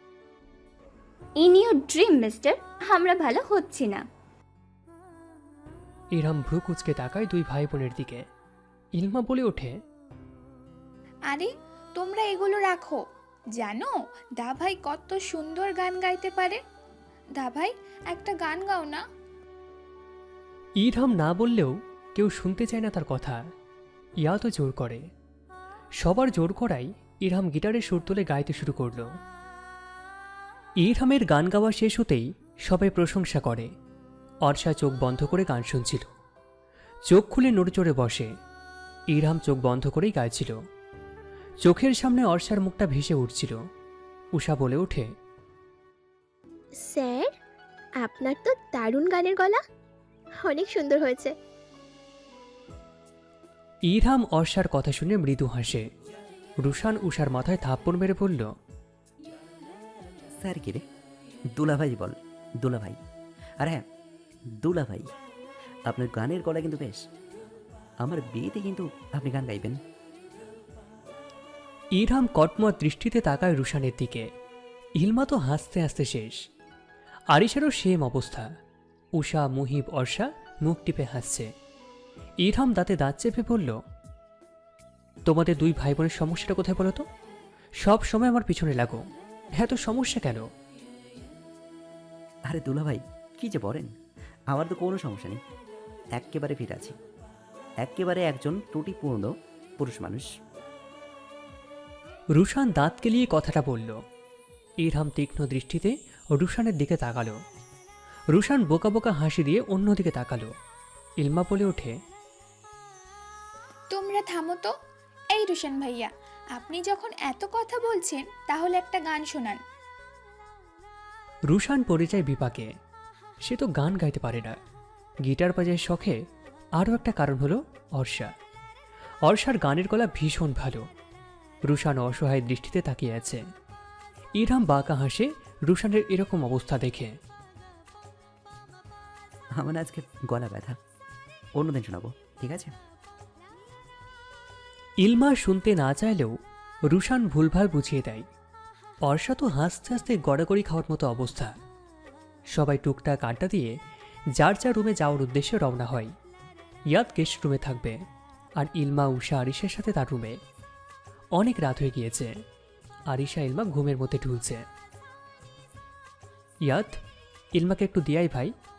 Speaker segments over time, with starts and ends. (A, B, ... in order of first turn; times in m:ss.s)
0:01.4-0:04.0 A
0:06.2-0:08.2 B
0:09.0-0:09.7 B
0:11.3-0:13.0 C
0:13.6-0:16.6 C
0:17.4-0:19.0 C
0:20.8-0:23.4 B
0:24.2-0:25.0 B
0:26.0-0:29.1 B
0:30.8-0:33.7 B
0:34.4-0:36.1 B
0:37.1-0:38.3 B
0:39.1-0:40.6 B
0:41.6-0:43.6 B
0:44.3-0:45.1 B
0:46.8-0:47.3 D
0:48.0-0:49.6 D
0:50.4-0:51.3 D
0:53.9-0:55.9 B
0:56.6-0:58.5 B
1:00.4-1:00.8 E
1:01.6-1:03.0 E
1:04.6-1:05.1 E
1:05.9-1:07.0 E
1:08.0-1:09.8 E
1:12.0-1:14.3 B
1:15.0-1:16.4 B
1:17.3-1:18.5 B
1:19.2-1:21.5 B
1:22.4-1:23.8 B
1:25.3-1:27.0 B
1:27.8-1:29.0 B
1:29.6-1:30.5 B
1:32.5-1:33.9 E
1:34.5-1:35.4 E
1:36.2-1:37.0 E
1:37.8-1:40.3 E
1:42.4-1:44.0 B
1:44.8-1:47.4 B
1:48.3-1:50.5 B
1:51.2-1:51.9 B
1:53.9-1:54.7 C
1:55.3-1:59.6 C
2:01.5-2:02.7 B
2:03.4-2:04.6 B
2:05.2-2:06.2 B
2:06.8-2:08.3 B
2:09.2-2:10.8 B
2:11.7-2:13.4 B
2:14.4-2:17.2 B
2:19.6-2:20.8 E
2:21.6-2:22.7 E
2:25.0-2:26.4 B
2:26.9-2:28.3 B
2:29.0-2:31.5 B
2:32.5-2:33.8 B
2:34.4-2:36.1 B
2:36.9-2:38.0 B
2:38.6-2:40.4 B
2:41.4-2:42.3 B
2:43.1-2:44.6 B
2:46.7-2:47.0 B
2:47.6-2:48.5 B